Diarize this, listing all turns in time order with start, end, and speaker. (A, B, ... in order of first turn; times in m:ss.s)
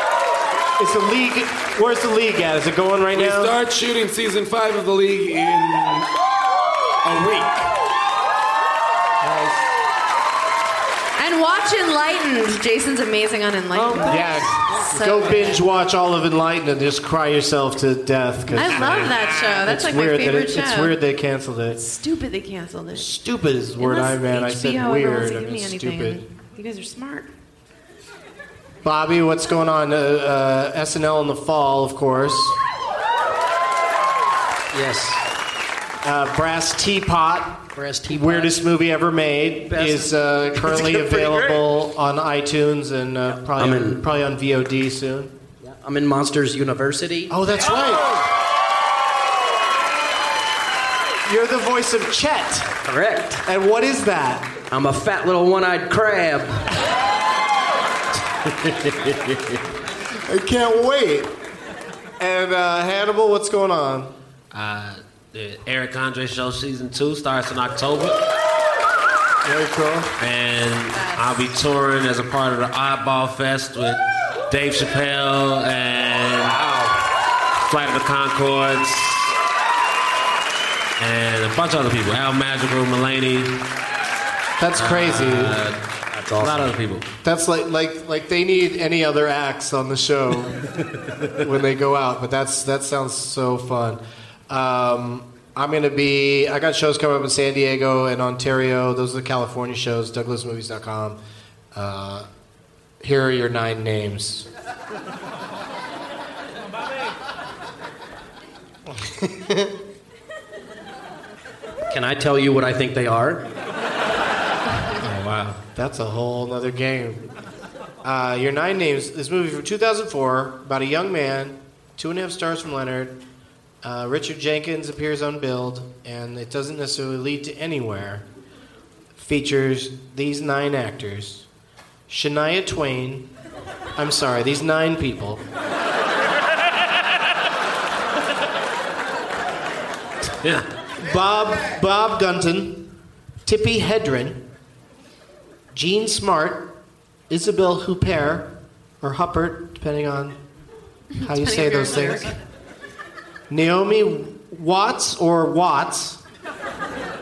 0:00.8-0:03.5 A
0:03.1-0:06.1 B
0:07.0-0:07.7 B
0:09.2-0:09.7 A
0:11.2-0:15.6 C
0:13.8-0:21.8 A
0:18.5-0:21.0 C
0:18.6-0:19.2 D
0:21.7-0:23.1 C
0:23.0-0:26.2 A
0:23.8-0:27.3 C
0:28.8-0:32.6 A
0:34.7-0:35.2 E
0:36.0-0:45.3 A
0:37.7-0:38.6 E
0:39.7-0:41.7 E
0:43.3-0:44.0 E
0:45.6-0:47.4 E
0:47.3-0:48.2 A
0:51.2-0:52.7 A
0:52.8-0:53.4 E
0:53.4-0:54.6 A
0:54.7-0:56.7 E
0:58.4-0:59.6 D
1:00.2-1:01.3 A
1:02.2-1:04.2 A
1:04.5-1:08.2 D
1:09.4-1:10.2 A
1:10.2-1:16.6 D
1:10.9-1:11.3 C
1:16.4-1:17.0 E
1:17.6-1:19.3 D
1:21.0-1:23.6 D
1:24.6-1:25.6 A
1:24.8-1:25.8 D
1:26.1-1:26.8 E
1:26.4-1:27.1 D
1:27.2-1:30.7 A
1:31.3-1:41.2 A
1:41.7-1:42.3 A
1:43.0-1:44.5 A
1:48.9-1:49.7 A
1:51.9-1:53.4 E
1:55.0-1:55.5 D
1:55.1-1:57.3 A
1:58.0-2:03.2 A
2:03.8-2:08.2 A
2:09.2-2:11.5 A
2:12.1-2:13.3 A
2:14.0-2:15.4 A
2:21.0-2:22.9 A
2:23.4-2:24.4 A
2:25.7-2:26.7 A
2:27.3-2:30.4 A
2:31.1-2:32.4 C
2:31.2-2:32.4 A
2:33.5-2:36.2 A